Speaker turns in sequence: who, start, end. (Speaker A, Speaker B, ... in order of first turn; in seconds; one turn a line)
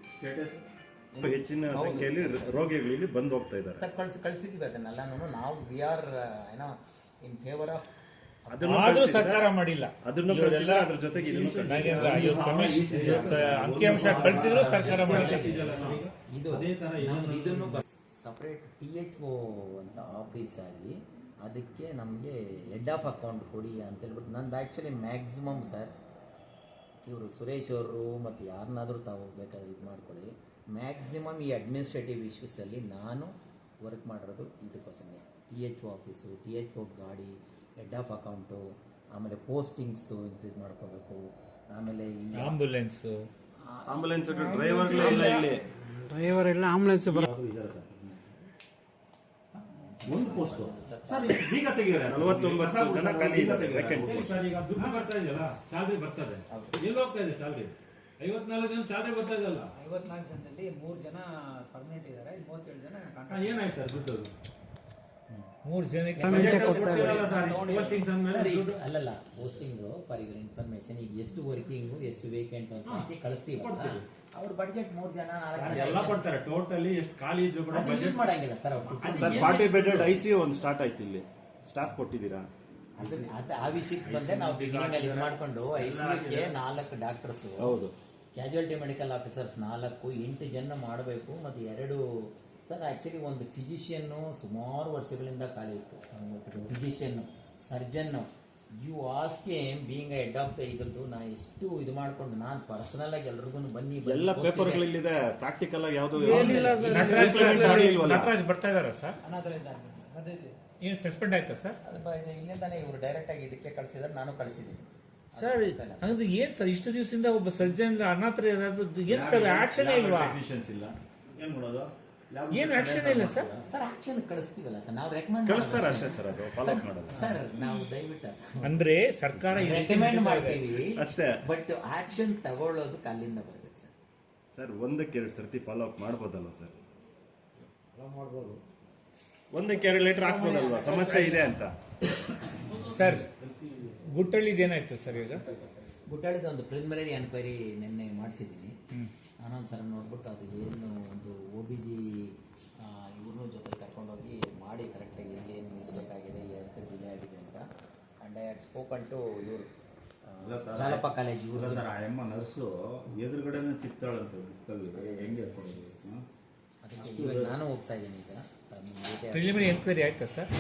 Speaker A: 0.1-0.6
Speaker B: 1.1-2.7
Speaker C: 1.2-3.8
Speaker B: 3.8-7.9
Speaker B: 8.5-9.1
Speaker C: 8.5-9.5
Speaker D: 8.6-11.0
Speaker C: 10.0-16.0
Speaker A: 11.4-15.9
Speaker E: 11.4-13.2
Speaker D: 11.6-15.7
Speaker E: 13.9-17.8
Speaker B: 14.7-25.9
Speaker B: 27.1-38.6
Speaker B: 39.1-42.6
Speaker D: 42.4-43.3
Speaker B: 43.6-45.4
Speaker C: 43.9-45.6
Speaker F: 44.9-45.4
Speaker F: 46.1-47.2
Speaker A: 46.9-48.4
Speaker B: 49.6-51.5
Speaker A: 50.1-50.7
Speaker C: 51.2-54.3
Speaker E: 51.6-51.9
Speaker A: 52.1-54.5
Speaker E: 54.1-59.7
Speaker B: 56.5-56.8
Speaker G: 59.8-63.8
Speaker E: 63.3-64.3
Speaker D: 65.6-66.9
Speaker B: 66.2-67.4
Speaker E: 66.3-68.8
Speaker C: 66.5-68.2
Speaker G: 66.5-68.2
Speaker B: 68.2-76.2
Speaker E: 73.6-74.0
Speaker E: 75.5-78.3
Speaker B: 77.7-80.2
Speaker E: 79.0-79.3
Speaker C: 79.1-82.5
Speaker B: 83.0-87.8
Speaker A: 84.0-86.5
Speaker C: 84.2-85.0
Speaker C: 87.6-87.9
Speaker B: 88.3-104.9
Speaker C: 104.0-108.3
Speaker D: 106.2-109.2
Speaker A: 106.4-107.2
Speaker F: 106.4-108.0
Speaker G: 109.2-110.5
Speaker D: 110.8-111.8
Speaker B: 111.8-116.1
Speaker D: 115.4-120.4
Speaker A: 119.1-123.7
Speaker D: 122.5-123.5
Speaker B: 123.7-128.8
Speaker C: 125.5-127.2
Speaker D: 128.6-130.6
Speaker B: 129.4-133.9
Speaker C: 130.8-131.4
Speaker C: 134.5-136.8
Speaker E: 138.0-138.6
Speaker C: 139.5-141.7
Speaker B: 140.9-141.2
Speaker D: 142.9-143.3
Speaker D: 144.1-145.4
Speaker B: 146.1-148.8
Speaker B: 149.4-157.6
Speaker B: 158.2-159.7
Speaker B: 160.2-161.9
Speaker A: 160.4-166.2
Speaker B: 165.0-165.5
Speaker B: 166.8-169.8
Speaker A: 167.0-167.6
Speaker D: 169.3-170.5